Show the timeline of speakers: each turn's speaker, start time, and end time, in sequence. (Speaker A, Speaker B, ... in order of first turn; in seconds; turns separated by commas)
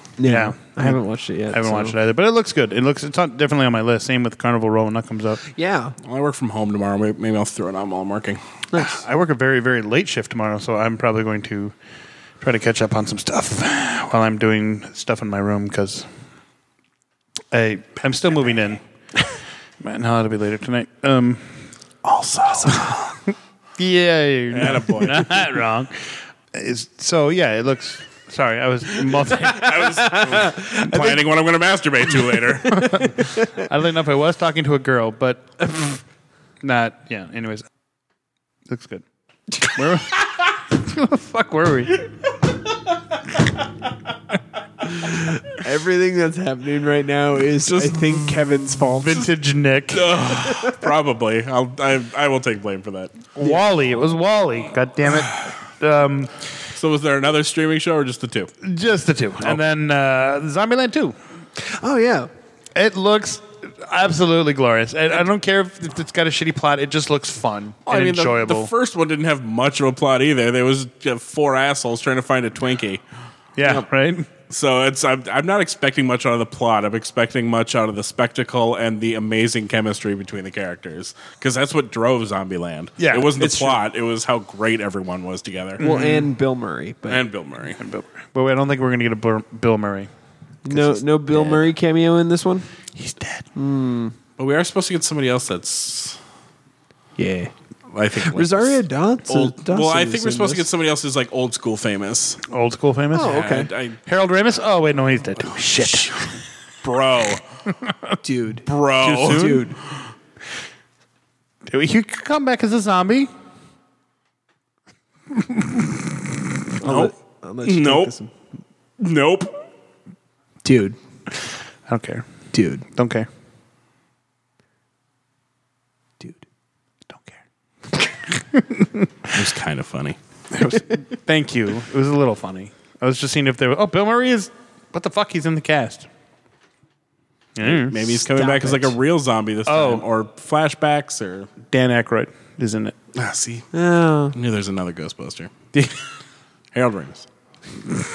Speaker A: 0.2-1.9, Speaker B: 0.2-1.0, Speaker B: 1.5-5.4, Speaker A: 5.5-6.0, Speaker C: 6.0-8.4, Speaker A: 8.7-9.0, Speaker B: 8.7-11.7, Speaker B: 12.4-16.1, Speaker B: 17.5-18.8, Speaker B: 19.8-21.6, Speaker C: 22.0-23.1, Speaker B: 23.8-29.9, Speaker C: 24.5-25.4, Speaker C: 29.3-33.1, Speaker A: 29.8-31.2, Speaker A: 32.6-33.5, Speaker B: 32.7-36.0, Speaker B: 36.6-37.7, Speaker B: 38.7-39.0, Speaker B: 39.6-42.0, Speaker A: 44.9-49.2, Speaker C: 47.6-48.4, Speaker B: 49.0-50.3, Speaker C: 49.9-53.2, Speaker A: 50.5-50.8, Speaker B: 53.4-56.3, Speaker C: 56.8-58.5, Speaker B: 58.6-61.1, Speaker A: 61.6-62.3, Speaker B: 62.7-68.7, Speaker C: 67.8-73.0, Speaker B: 73.6-74.3, Speaker C: 74.5-85.8, Speaker B: 83.0-83.6, Speaker B: 85.8-86.3, Speaker A: 85.8-87.2, Speaker C: 87.1-87.8, Speaker B: 87.8-90.1, Speaker A: 90.6-92.7, Speaker B: 90.7-91.6, Speaker B: 92.9-93.5, Speaker A: 93.5-94.1, Speaker C: 94.4-96.2, Speaker A: 97.2-97.5, Speaker C: 97.9-102.4, Speaker A: 98.2-100.7, Speaker B: 102.4-103.5, Speaker A: 103.1-103.7, Speaker C: 103.2-104.0, Speaker B: 104.0-106.3, Speaker C: 105.4-107.4, Speaker B: 107.8-108.1, Speaker A: 108.2-109.8, Speaker C: 108.7-109.6, Speaker B: 109.0-109.7, Speaker B: 111.7-113.3, Speaker B: 115.3-116.1, Speaker A: 116.8-118.3, Speaker C: 116.8-117.1, Speaker C: 117.6-118.1, Speaker C: 119.0-119.5, Speaker A: 120.6-121.0, Speaker B: 121.9-122.2, Speaker A: 122.5-122.8, Speaker B: 122.9-123.3, Speaker B: 127.1-127.4, Speaker B: 128.0-129.3, Speaker C: 129.3-130.2, Speaker B: 130.5-136.1, Speaker B: 137.6-138.2, Speaker C: 137.6-141.5, Speaker A: 138.3-138.9, Speaker B: 139.7-140.0, Speaker B: 141.6-142.9, Speaker C: 143.1-143.7, Speaker A: 143.7-144.3, Speaker C: 144.3-145.5, Speaker C: 146.7-147.2